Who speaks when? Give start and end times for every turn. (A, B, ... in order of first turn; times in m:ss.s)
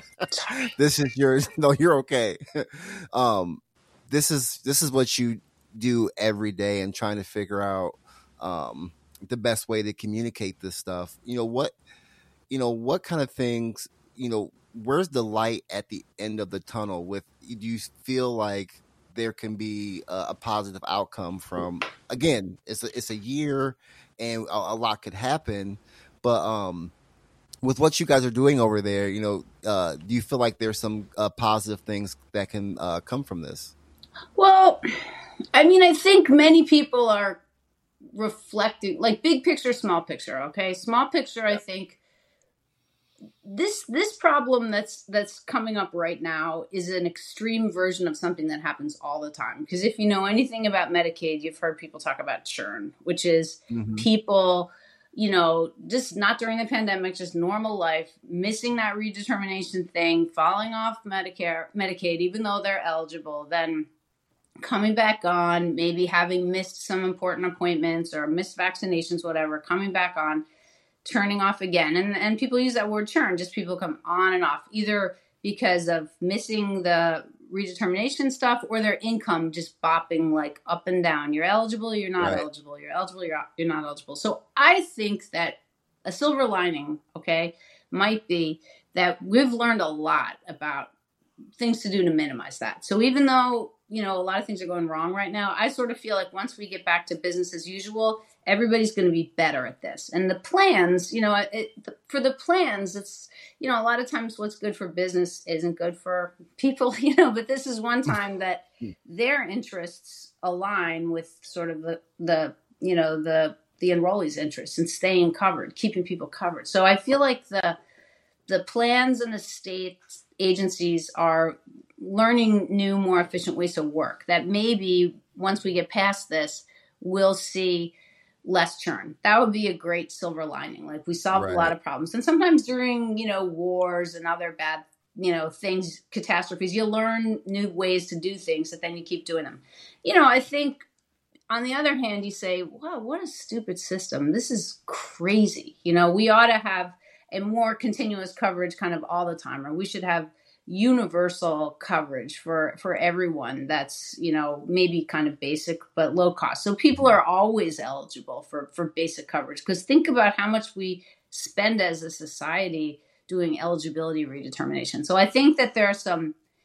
0:00.3-0:00.6 A
0:00.7-0:11.7 B
0:12.5-0:26.9 B
0:27.6-0:33.7 B
0:34.4-0:34.8 A
0:35.5-0:37.4 A
0:38.1-0:42.0 A
0:43.4-1:03.9 A
0:53.7-0:54.1 B
1:04.6-1:10.4 A
1:11.0-1:30.9 A
1:22.2-1:22.4 B
1:31.6-1:57.8 A
1:58.5-2:20.8 A
2:11.3-2:11.7 B
2:21.5-2:46.3 A